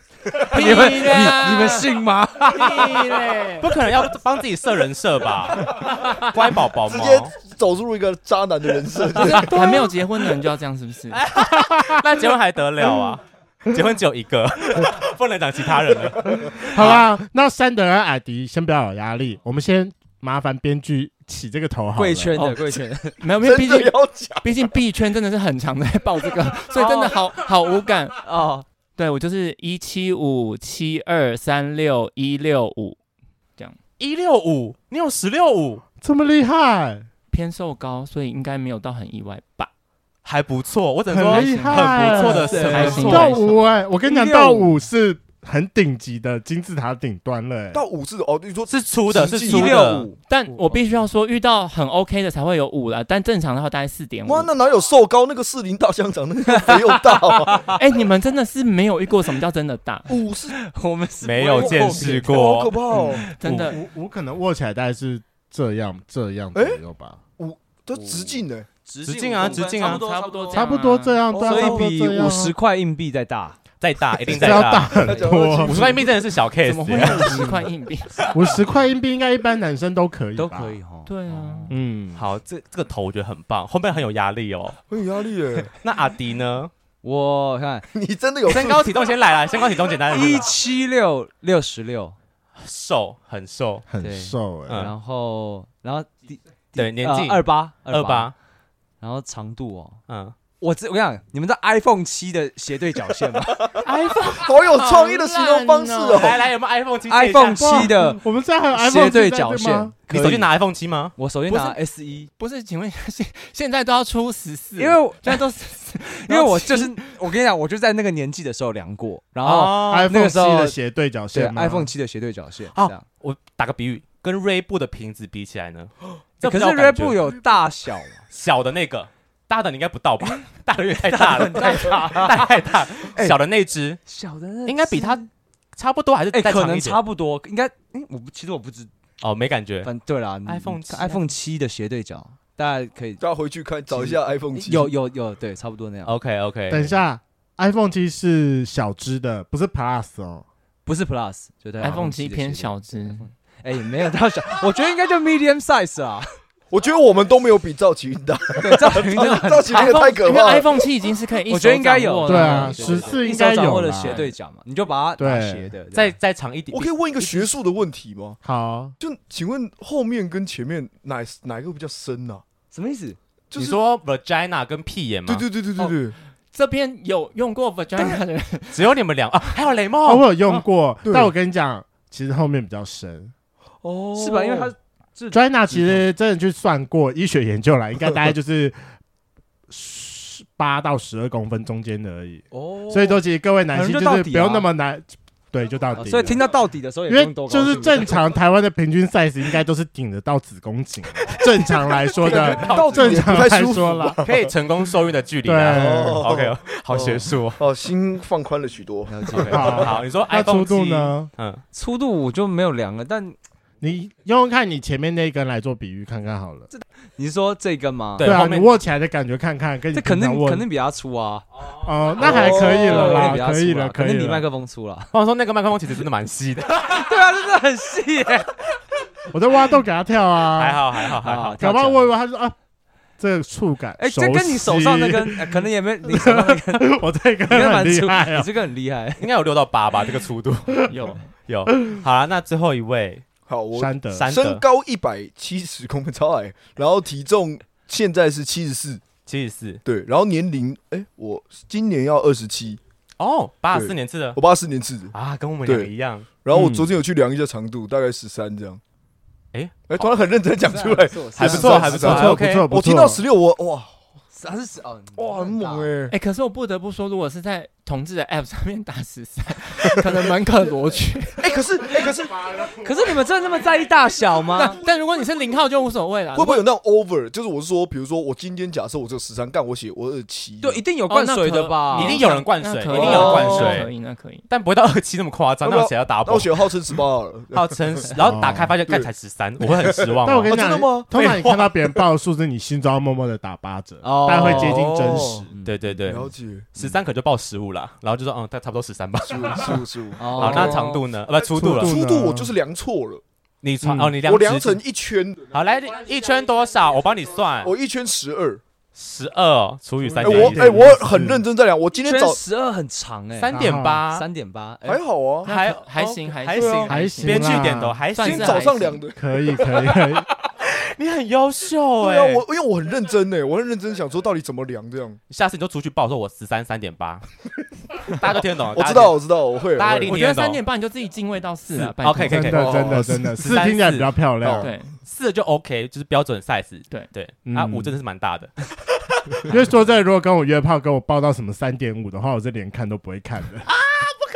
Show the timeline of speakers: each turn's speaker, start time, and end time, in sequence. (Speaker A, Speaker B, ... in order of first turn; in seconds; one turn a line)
Speaker A: 0.3-3.5
Speaker B: 0.5-1.9
Speaker B: 2.4-3.7
Speaker C: 3.6-7.3
Speaker A: 6.0-6.3
Speaker D: 6.8-9.9
Speaker B: 9.2-11.2
Speaker C: 11.1-17.0
Speaker E: 11.4-12.1
Speaker D: 16.2-16.9
Speaker E: 16.7-22.4
Speaker A: 22.0-23.2
Speaker B: 22.4-28.2
Speaker D: 23.4-24.5
Speaker A: 26.7-27.2
Speaker A: 28.2-28.6
Speaker B: 29.0-33.0
Speaker C: 34.0-35.8
Speaker E: 36.0-37.1
Speaker B: 37.3-39.7
Speaker C: 40.2-43.4
Speaker E: 41.1-47.8
Speaker B: 41.2-43.6
Speaker A: 42.2-43.4
Speaker A: 44.0-44.7
Speaker D: 47.7-49.8
Speaker C: 48.7-50.1
Speaker A: 49.4-50.2
Speaker B: 50.3-54.5
Speaker D: 54.2-57.7
Speaker A: 56.6-57.8
Speaker B: 57.6-60.2
Speaker D: 60.1-60.6
Speaker A: 60.5-63.3
Speaker C: 61.2-62.7
Speaker D: 61.6-63.2
Speaker B: 62.9-63.8
Speaker E: 63.4-67.2
Speaker D: 67.4-68.7
Speaker A: 67.9-70.6
Speaker C: 69.0-70.0
Speaker B: 69.8-71.2
Speaker E: 70.5-72.6
Speaker D: 71.3-71.9
Speaker A: 71.3-73.6
Speaker C: 73.8-77.5
Speaker E: 74.3-75.9
Speaker D: 74.4-76.1
Speaker B: 76.6-78.4
Speaker A: 77.0-77.7
Speaker E: 78.3-80.8
Speaker A: 80.4-81.8
Speaker B: 81.0-81.7
Speaker E: 81.7-82.2
Speaker C: 82.1-84.8
Speaker D: 84.9-85.7
Speaker C: 85.8-86.7
Speaker A: 87.0-87.9
Speaker D: 87.9-88.8
Speaker C: 88.5-90.5
Speaker A: 90.1-92.2
Speaker C: 92.6-93.9
Speaker E: 93.9-94.8
Speaker A: 94.0-98.3
Speaker C: 94.7-94.9
Speaker C: 96.8-98.3
Speaker A: 99.0-100.0
Speaker C: 100.1-100.4
Speaker A: 100.5-103.7
Speaker D: 103.7-106.5
Speaker C: 103.8-104.5
Speaker B: 104.6-106.3
Speaker C: 106.1-107.9
Speaker A: 107.1-108.2
Speaker E: 107.6-109.9
Speaker A: 108.7-110.5
Speaker C: 110.1-111.2
Speaker A: 111.2-112.3
Speaker B: 111.5-111.8
Speaker B: 112.4-117.0
Speaker A: 114.8-115.4
Speaker A: 116.3-120.8
Speaker C: 119.4-120.1
Speaker E: 119.8-121.9
Speaker A: 121.3-123.0
Speaker C: 122.7-127.2
Speaker A: 126.4-128.2
Speaker C: 128.3-134.0
Speaker A: 131.1-133.4
Speaker A: 134.1-135.3
Speaker C: 134.7-135.2
Speaker C: 135.8-137.0
Speaker A: 136.3-138.9
Speaker C: 139.2-139.9
Speaker A: 139.8-143.2
Speaker C: 140.4-141.2
Speaker D: 143.2-144.9
Speaker A: 143.9-146.1
Speaker C: 146.1-146.9
Speaker E: 146.7-150.4
Speaker A: 150.9-156.4
Speaker B: 151.8-153.3
Speaker D: 156.7-160.8
Speaker A: 158.6-160.2
Speaker B: 159.7-163.1
Speaker A: 161.5-166.1
Speaker E: 162.3-164.3
Speaker E: 165.2-165.7
Speaker C: 165.9-166.9
Speaker D: 166.7-168.4
Speaker A: 167.2-167.5
Speaker E: 168.4-168.9
Speaker D: 169.0-172.4
Speaker A: 172.7-173.2
Speaker D: 173.5-173.8
Speaker C: 173.6-175.5
Speaker D: 175.3-176.2
Speaker B: 176.5-178.9
Speaker C: 178.7-180.2
Speaker E: 180.1-183.3
Speaker D: 181.0-181.3
Speaker D: 183.8-184.7
Speaker A: 184.1-186.1
Speaker E: 185.3-188.8
Speaker E: 189.7-196.4
Speaker A: 192.5-193.2
Speaker A: 193.7-194.7
Speaker A: 195.9-198.2
Speaker E: 197.1-204.2
Speaker D: 202.2-204.5
Speaker C: 202.2-203.2
Speaker A: 202.3-203.5
Speaker C: 204.2-207.6
Speaker E: 205.4-206.2
Speaker D: 205.7-209.8
Speaker A: 209.1-209.8
Speaker C: 209.3-211.6
Speaker E: 209.5-211.3
Speaker A: 211.7-213.4
Speaker E: 213.8-216.7
Speaker A: 216.7-218.4
Speaker C: 218.2-218.7
Speaker E: 218.2-220.7
Speaker A: 219.9-221.5
Speaker E: 221.8-224.5
Speaker A: 222.2-225.1
Speaker D: 222.3-223.1
Speaker C: 222.7-223.3
Speaker C: 225.1-227.1
Speaker A: 226.8-228.7
Speaker E: 229.3-230.8
Speaker C: 230.6-231.6
Speaker A: 231.1-232.1
Speaker E: 231.6-232.6
Speaker E: 233.2-238.5
Speaker A: 234.0-237.0
Speaker A: 237.5-239.3
Speaker C: 239.2-240.9
Speaker B: 240.9-241.3
Speaker C: 241.5-243.2
Speaker D: 243.5-249.0
Speaker E: 243.7-244.3
Speaker C: 244.1-244.6
Speaker C: 249.3-249.8
Speaker D: 249.8-252.8
Speaker C: 253.2-254.4
Speaker D: 253.7-255.1
Speaker C: 255.1-256.8
Speaker D: 255.7-258.8
Speaker E: 256.5-256.8
Speaker C: 259.5-260.1
Speaker D: 259.9-263.9
Speaker A: 260.7-262.2
Speaker C: 261.4-262.7
Speaker E: 262.0-263.2
Speaker A: 264.3-265.9
Speaker D: 265.1-266.1
Speaker B: 266.1-271.5
Speaker D: 271.4-272.6
Speaker A: 272.0-274.8
Speaker B: 274.5-276.6
Speaker D: 276.3-280.8
Speaker A: 280.6-282.2
Speaker B: 281.1-284.5
Speaker C: 281.9-283.9
Speaker D: 282.9-283.8
Speaker A: 283.2-283.5
Speaker C: 284.5-286.7
Speaker D: 285.6-288.1
Speaker C: 287.5-290.6
Speaker E: 288.2-288.7
Speaker D: 289.6-291.1
Speaker E: 290.2-295.5
Speaker C: 291.1-291.7
Speaker A: 294.0-295.8
Speaker D: 294.4-295.5
Speaker C: 295.6-301.9
Speaker D: 296.1-296.7
Speaker D: 299.3-300.9
Speaker A: 300.2-301.1
Speaker D: 301.5-303.2
Speaker E: 301.6-302.5
Speaker C: 303.6-304.8
Speaker E: 303.8-304.2
Speaker D: 304.2-305.4
Speaker C: 305.5-307.7
Speaker D: 307.6-308.6
Speaker C: 309.0-310.9
Speaker E: 310.0-311.4
Speaker D: 310.2-312.4
Speaker A: 312.0-313.6
Speaker C: 313.4-314.3
Speaker E: 313.5-314.0
Speaker A: 314.1-315.0
Speaker D: 314.9-315.5
Speaker C: 315.4-318.7
Speaker B: 315.4-319.0
Speaker D: 316.6-316.9
Speaker E: 316.9-318.0
Speaker D: 318.2-320.0
Speaker E: 319.1-320.3
Speaker C: 320.6-322.4
Speaker D: 322.0-325.2
Speaker C: 325.3-327.2
Speaker C: 328.0-329.2
Speaker D: 328.7-330.1
Speaker C: 329.8-330.6
Speaker B: 330.1-332.7
Speaker C: 331.8-334.1
Speaker E: 332.3-334.7
Speaker D: 332.5-333.4
Speaker D: 334.4-334.7
Speaker B: 334.6-334.9
Speaker C: 335.0-339.5
Speaker E: 337.5-337.9
Speaker E: 339.5-343.7